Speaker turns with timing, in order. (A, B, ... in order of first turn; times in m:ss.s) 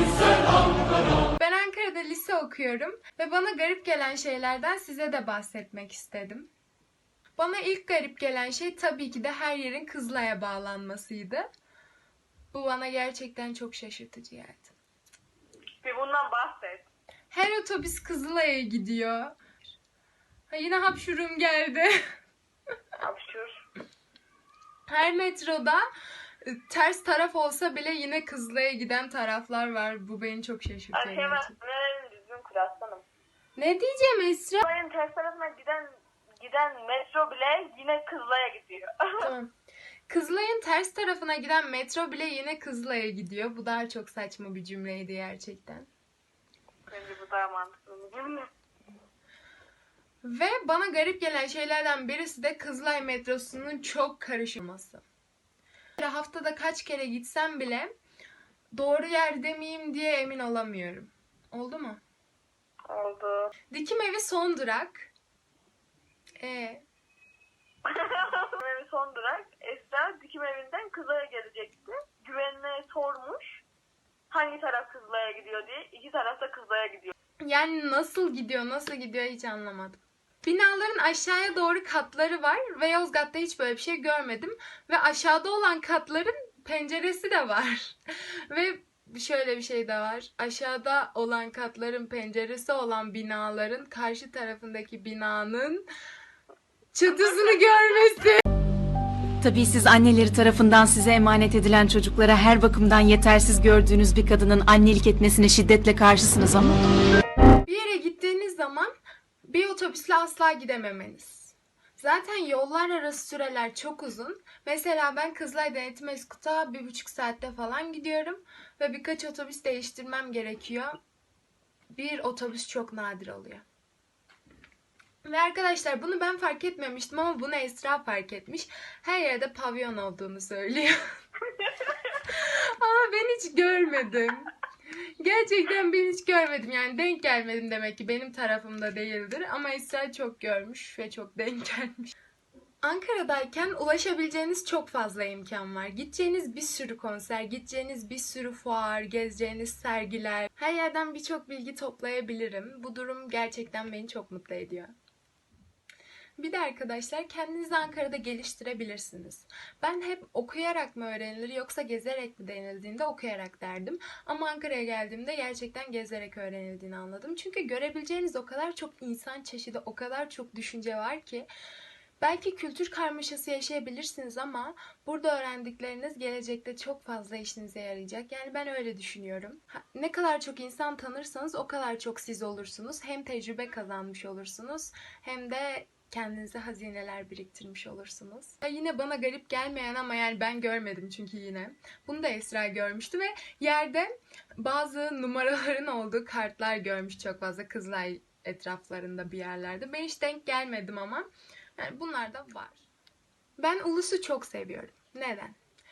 0:01.4-0:06.5 A
0:07.4-0:11.5 A
0:12.5-0:14.7 A
0:15.8-0:16.8 B
0:17.3-0:19.4 A
0:20.5-0:22.0 A
0:23.0-0:23.6 B
0:24.9-0:25.8 A
0:26.4-0:31.5 A
0:30.9-0:33.0 B
0:33.6-0:34.6 A
0:34.6-0:39.3 B
0:39.2-0:39.5 A
0:40.1-0:45.9 A
0:46.9-0:48.5 B
0:50.2-0:55.0 A
0:56.0-0:57.9 A
0:58.7-1:02.0 A
1:02.9-1:03.5 B
1:03.7-1:05.1 A
1:06.4-1:06.8 A
1:07.8-1:13.6 B
1:14.3-1:17.1 B
1:17.4-1:35.8 A
1:36.9-1:38.4 A
1:39.4-1:46.7 C
1:47.6-1:48.9 A
1:49.4-2:01.0 A
2:01.9-2:03.6 A
2:05.2-2:11.0 A
2:12.2-2:14.5 A
2:15.2-2:22.1 A
2:22.8-2:34.9 A
2:36.4-2:51.5 A
2:52.2-3:22.8 A
3:23.6-3:25.6 A